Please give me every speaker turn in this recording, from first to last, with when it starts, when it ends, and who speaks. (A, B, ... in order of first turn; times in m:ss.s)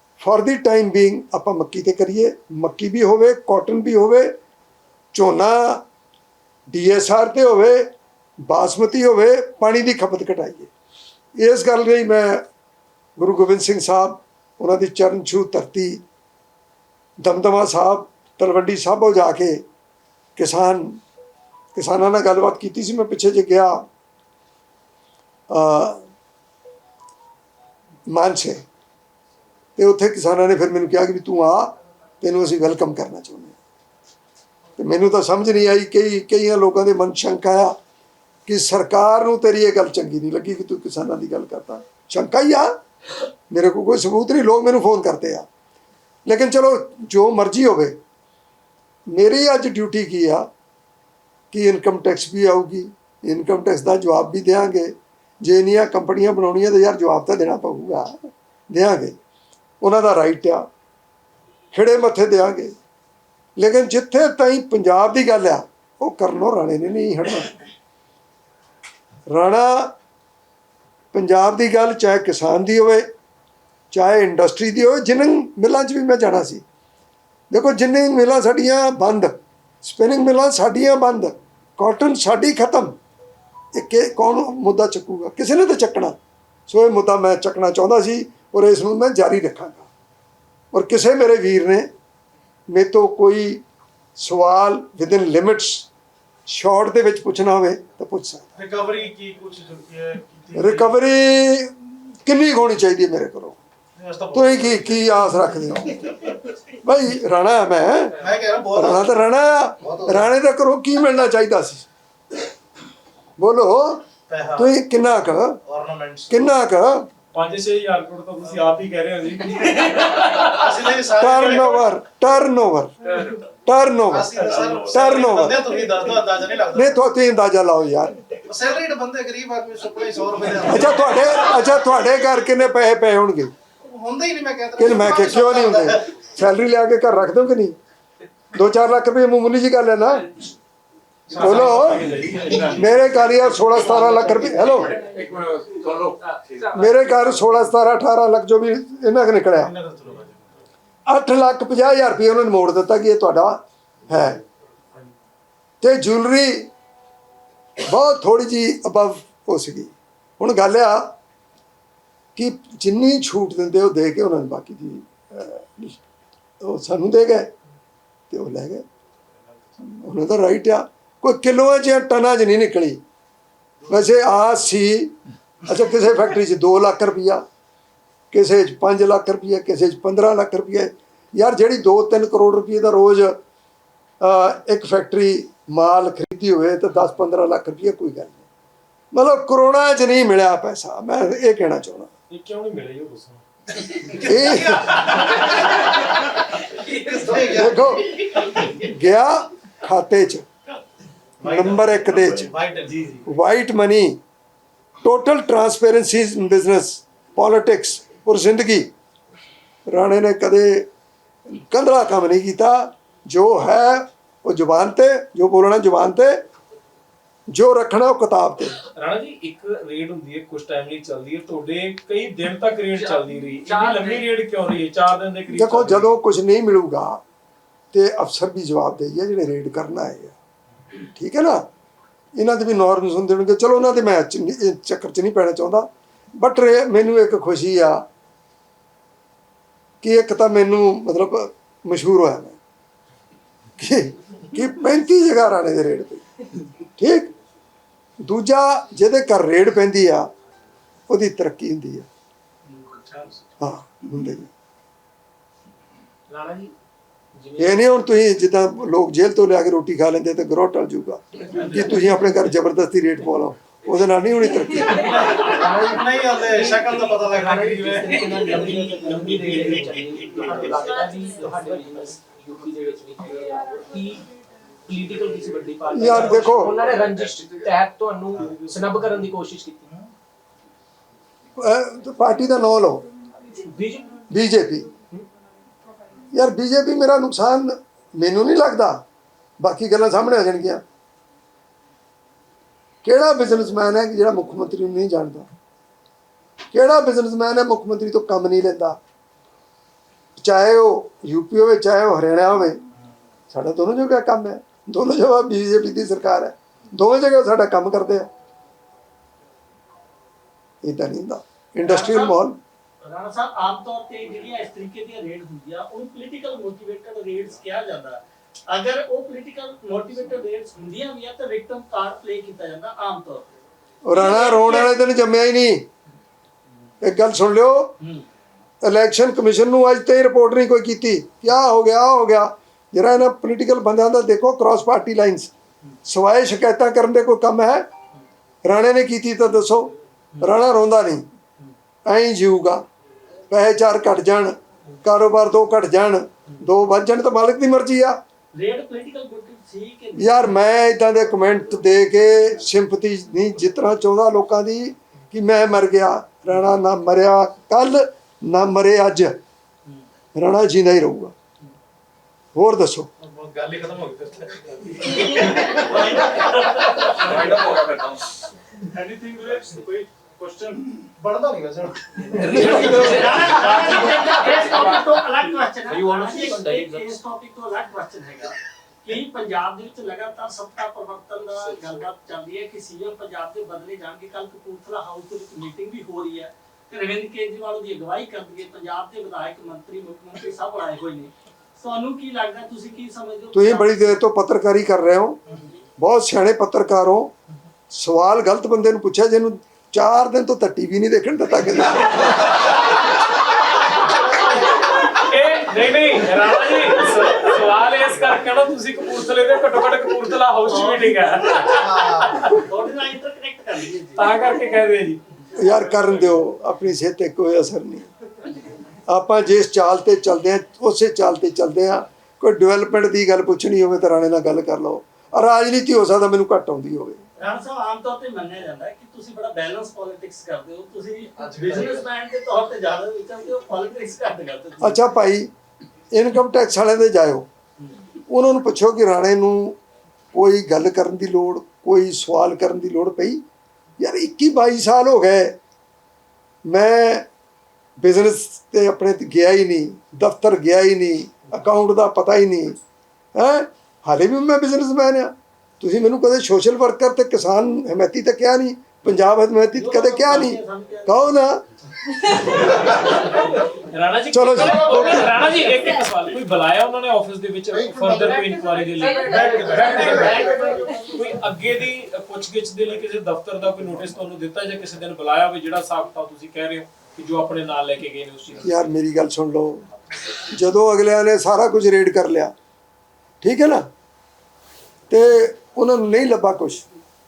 0:00.2-0:04.3 A
0:05.1-0:05.8 A
0:06.7-0:07.9 A
0:08.5-0:10.7 A
0:11.4-0:12.4 A
0:13.2-0:16.0 A
0:17.2-0:19.6 A
0:20.4-0:21.0 A
0:21.8-0:23.8 A
0:25.5-0:26.0 A
0:28.1-0:28.6 A
0:29.8-0:33.6 A
0:34.8-0:37.8 A
0:38.5-0:42.7 A
0:43.5-0:45.5 A
0:46.3-0:48.0 A
0:49.1-0:50.5 A
0:51.5-0:58.2 A
0:58.7-0:59.2 A
0:59.8-1:00.7 A
1:01.7-1:02.7 A
1:03.6-1:07.6 A
1:09.3-1:09.9 A
1:11.1-1:13.1 A
1:13.9-1:16.6 A
1:17.5-1:23.0 A
1:23.8-1:26.2 A
1:26.7-1:29.9 A
1:30.7-1:31.9 A
1:32.7-1:33.6 A
1:34.2-1:35.9 A
1:36.5-1:38.5 A
1:38.6-1:41.0 B
1:40.6-1:43.6 A
1:44.0-1:45.4 B
1:44.3-1:46.2 A
1:46.8-1:51.9 A
1:48.2-1:49.2 B
1:49.8-1:50.3 B
1:53.4-1:55.6 A
1:54.3-1:54.8 B
1:55.6-1:56.4 B
1:56.3-1:57.1 A
1:57.3-2:00.7 C
2:00.4-2:01.9 B
2:01.1-2:05.8 A
2:03.1-2:03.4 C
2:04.1-2:07.0 B
2:04.6-2:04.9 C
2:06.7-2:08.2 A
2:08.4-2:11.7 B
2:10.6-2:13.5 A
2:13.8-2:16.0 B
2:14.8-2:17.8 A
2:18.5-2:20.3 A
2:21.3-2:23.0 C
2:21.3-2:25.1 A
2:23.9-2:25.3 D
2:25.2-2:26.1 B
2:25.9-2:27.4 D
2:26.7-2:29.7 A
2:29.6-2:30.4 B
2:31.1-2:34.4 A
2:35.8-2:36.7 A
2:37.8-2:41.2 A
2:42.4-2:46.0 A
2:46.6-2:47.5 A
2:48.3-2:48.8 A
2:49.8-2:53.0 A
2:53.9-2:57.4 A
2:58.3-3:03.4 A
3:04.2-3:08.4 A
3:09.1-3:12.1 A
3:12.3-3:13.4 C
3:13.9-3:15.5 B
3:14.2-3:15.4 A
3:16.8-3:18.3 B
3:17.4-3:20.5 A
3:21.4-3:23.2 B
3:21.4-3:22.5 A
3:23.2-3:24.2 A
3:25.0-3:28.9 A
3:29.9-3:30.9 A
3:31.5-3:36.4 A
3:37.5-3:38.8 A
3:39.0-3:46.2 C
3:42.9-3:44.3 D
3:45.5-3:47.2 A
3:47.9-3:50.4 A
3:51.1-3:51.6 A
3:52.4-3:58.0 A
4:00.0-4:02.6 A
4:03.8-4:06.3 A
4:06.8-4:07.3 A
4:08.2-4:10.3 A
4:11.1-4:12.1 A
4:12.8-4:13.4 B
4:13.6-4:14.5 A
4:16.3-4:16.7 D
4:17.4-4:17.8 D
4:17.6-4:25.4 A
4:21.6-4:21.9 B
4:24.8-4:34.2 D
4:24.9-4:28.6 B
4:34.9-4:39.9 D
4:35.9-4:36.8 A
4:38.4-4:39.1 C
4:41.6-4:43.0 A
4:43.6-4:44.2 D
4:44.3-4:44.9 A
4:46.3-4:49.0 A
4:49.6-4:50.8 A
4:53.0-4:55.5 A
4:56.7-4:59.0 A
5:00.4-5:02.8 A
5:03.5-5:08.3 A
5:10.8-5:12.6 A
5:11.8-5:12.4 E
5:13.0-5:23.5 E
5:24.0-5:25.9 A
5:24.1-5:24.9 E
5:27.0-5:28.0 A
5:28.0-5:28.3 E
5:28.8-5:35.5 A
5:36.0-5:37.9 A
5:38.6-5:41.2 A
5:42.1-5:42.8 A
5:43.5-5:48.2 A
5:48.6-5:50.5 E
5:50.2-5:59.4 A
6:00.4-6:01.3 A
6:02.6-6:03.1 A
6:03.2-6:07.8 B
6:05.1-6:07.6 E
6:08.9-6:10.6 E
6:10.2-6:10.7 C
6:11.0-6:13.7 B
6:12.3-6:15.2 D
6:12.6-6:34.2 E
6:15.9-6:17.2 D
6:33.5-6:35.4 A
6:36.0-6:37.3 A
6:37.9-6:42.7 A
6:43.9-6:52.5 C
6:50.7-6:51.8 E
6:51.7-6:52.5 B
6:52.5-6:54.9 E
6:54.2-6:55.2 C
6:55.6-6:56.3 E
6:55.6-6:58.1 A
6:59.1-7:07.2 A
7:07.4-7:15.0 E
7:11.4-7:12.1 B
7:14.8-7:15.5 A
7:16.1-7:17.5 A
7:18.3-7:19.8 A
7:20.3-7:23.4 A
7:24.0-7:25.6 A
7:26.7-7:27.3 A
7:28.0-7:32.8 A
7:33.4-7:41.6 A
7:39.7-7:41.4 E
7:42.5-7:43.7 E
7:43.9-7:50.5 C
7:44.3-7:45.1 A
7:49.2-7:50.8 B
7:49.3-7:51.4 E
7:49.4-7:50.3 D
7:51.0-7:58.7 C
7:58.6-7:59.8 A
8:00.3-8:02.5 A
8:03.4-8:03.9 A
8:05.1-8:06.8 A